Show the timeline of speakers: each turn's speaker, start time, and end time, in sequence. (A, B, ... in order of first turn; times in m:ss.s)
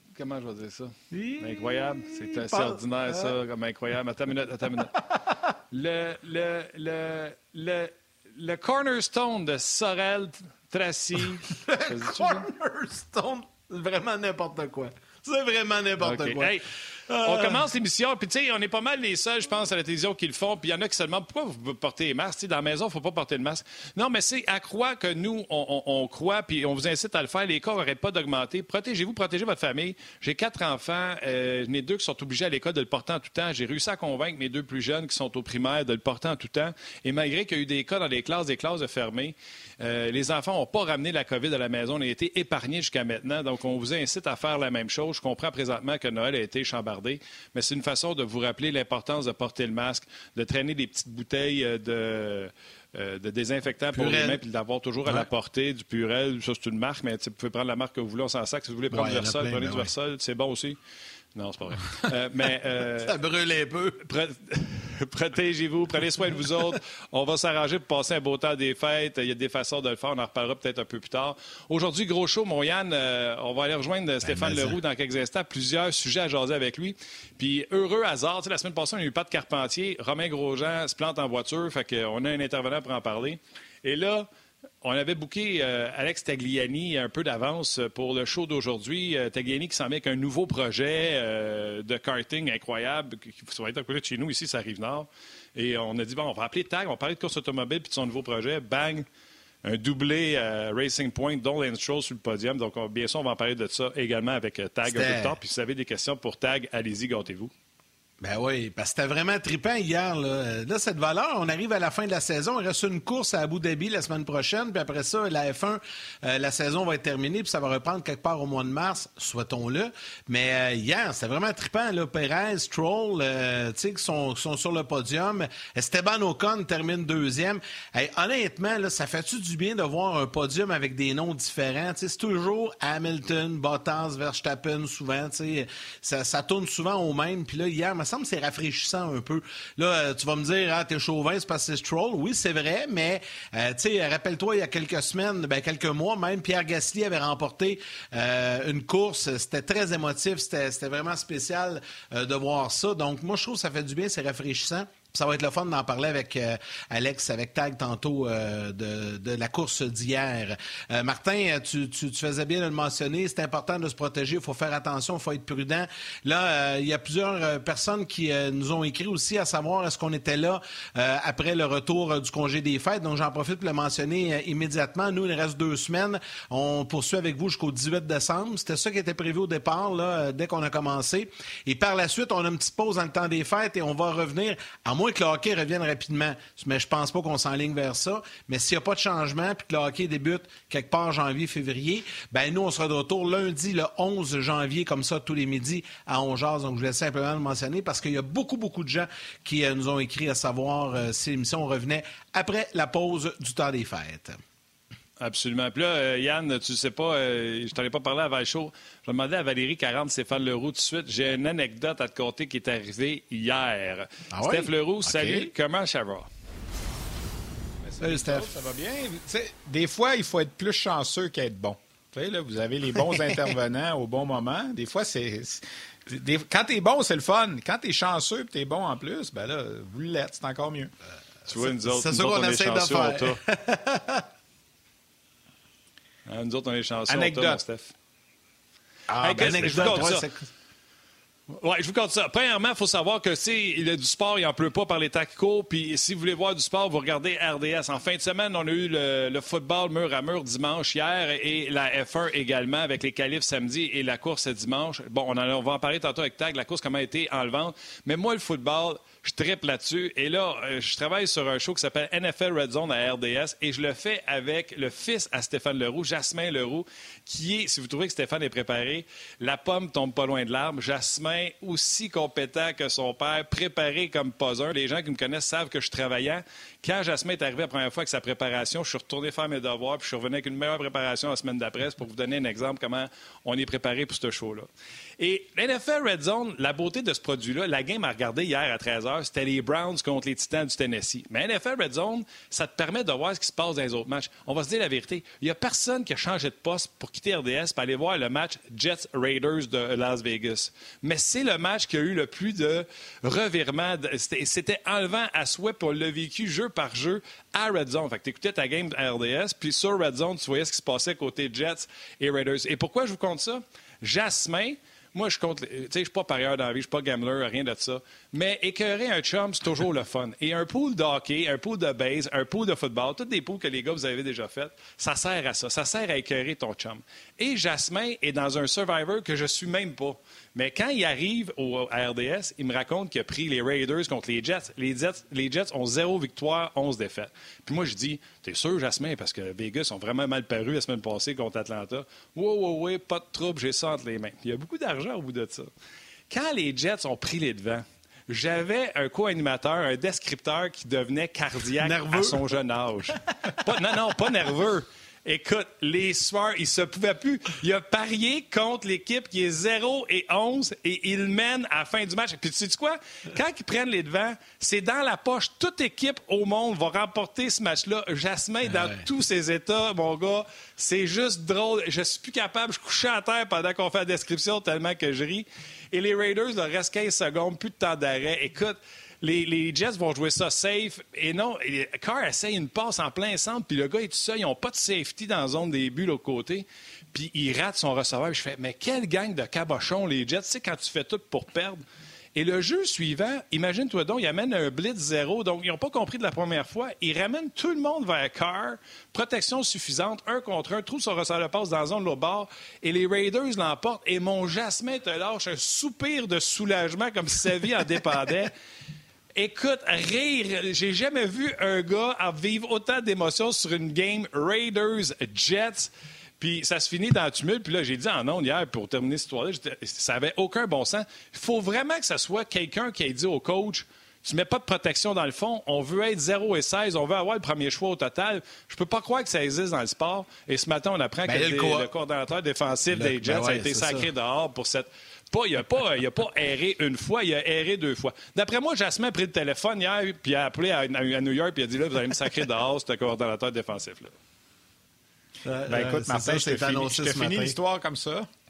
0:00.1-0:05.0 A
0:01.1-0:03.3 B
0:05.7-0:12.5 A
0:11.7-0:17.6 B
0:16.0-0:16.7 A
0:17.2-1:00.8 A
0:53.9-0:54.4 B
0:58.9-0:59.9 B
1:01.4-1:03.2 A
1:03.0-1:04.1 B
1:04.0-1:24.3 A
1:14.2-1:14.8 B
1:24.8-1:39.1 A
1:39.6-1:47.5 A
1:44.8-1:45.3 B
1:48.2-3:24.4 B
3:25.2-3:36.3 A
3:34.3-3:35.5 B
3:37.8-3:50.9 C
3:38.0-3:38.5 B
3:51.5-3:53.4 A
3:51.6-3:54.3 B
3:56.3-3:57.9 A
3:57.1-3:57.6 C
3:59.1-4:00.5 B
3:59.2-4:00.3 A
4:01.5-4:44.7 A
4:45.2-5:45.7 A
5:46.3-6:31.8 A
5:51.8-5:52.4 B
6:08.6-6:09.0 B
6:32.4-6:48.5 A
6:49.4-7:24.1 A
7:11.3-7:11.9 B
7:12.9-7:14.1 B
7:25.4-7:27.6 B
7:25.7-7:28.3 C